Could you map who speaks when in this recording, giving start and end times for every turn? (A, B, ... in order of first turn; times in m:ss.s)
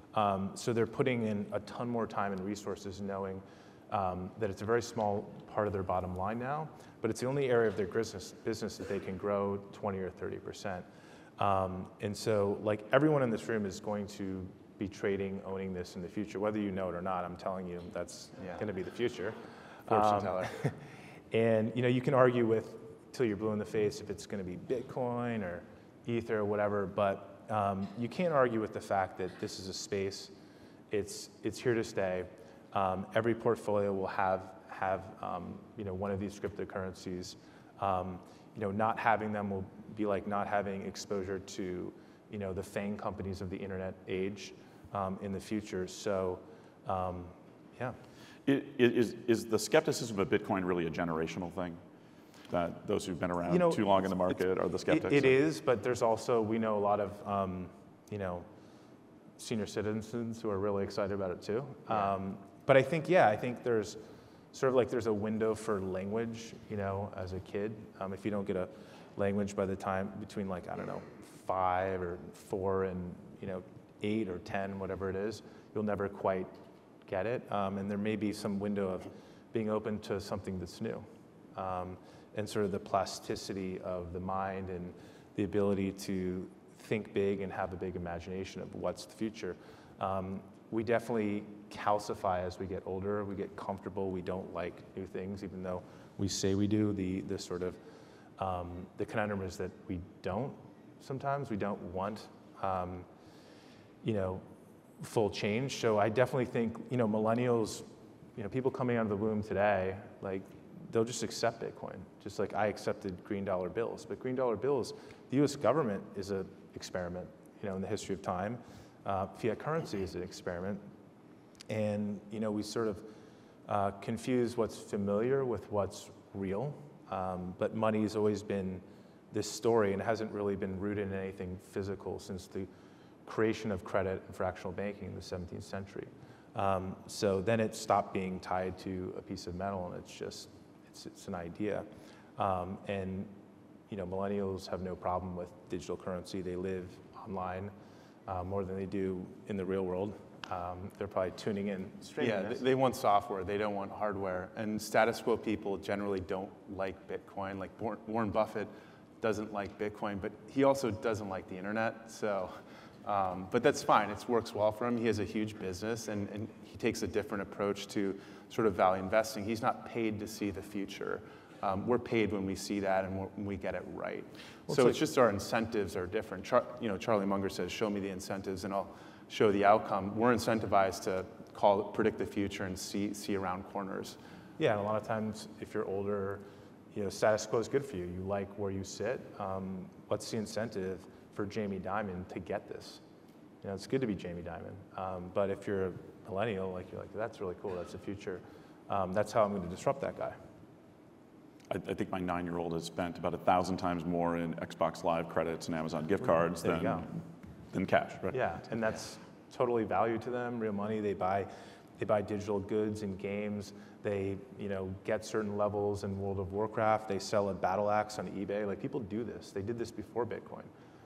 0:00.1-0:10.9 A
0:11.4-0:30.3 A
0:19.9-0:20.6 B
0:30.9-0:48.0 A
0:48.4-0:51.8 C
0:52.5-0:55.4 C
0:53.5-0:54.4 A
0:54.9-0:58.5 A
0:59.4-1:04.0 A
1:04.5-1:16.5 A
1:17.1-1:37.8 A
1:38.4-1:43.1 A
1:44.0-1:44.4 A
1:45.0-2:00.8 A
2:01.7-2:03.1 A
2:03.6-2:12.7 A
2:13.2-2:21.9 A
2:22.4-2:23.3 A
2:23.9-2:27.7 A
2:28.3-2:32.6 A
2:32.2-3:04.2 B
2:54.7-2:55.0 A
3:04.6-3:13.0 A
3:13.6-3:20.4 A
3:21.7-3:27.2 C
3:26.6-3:27.1 A
3:27.7-3:28.4 C
3:28.3-3:40.7 A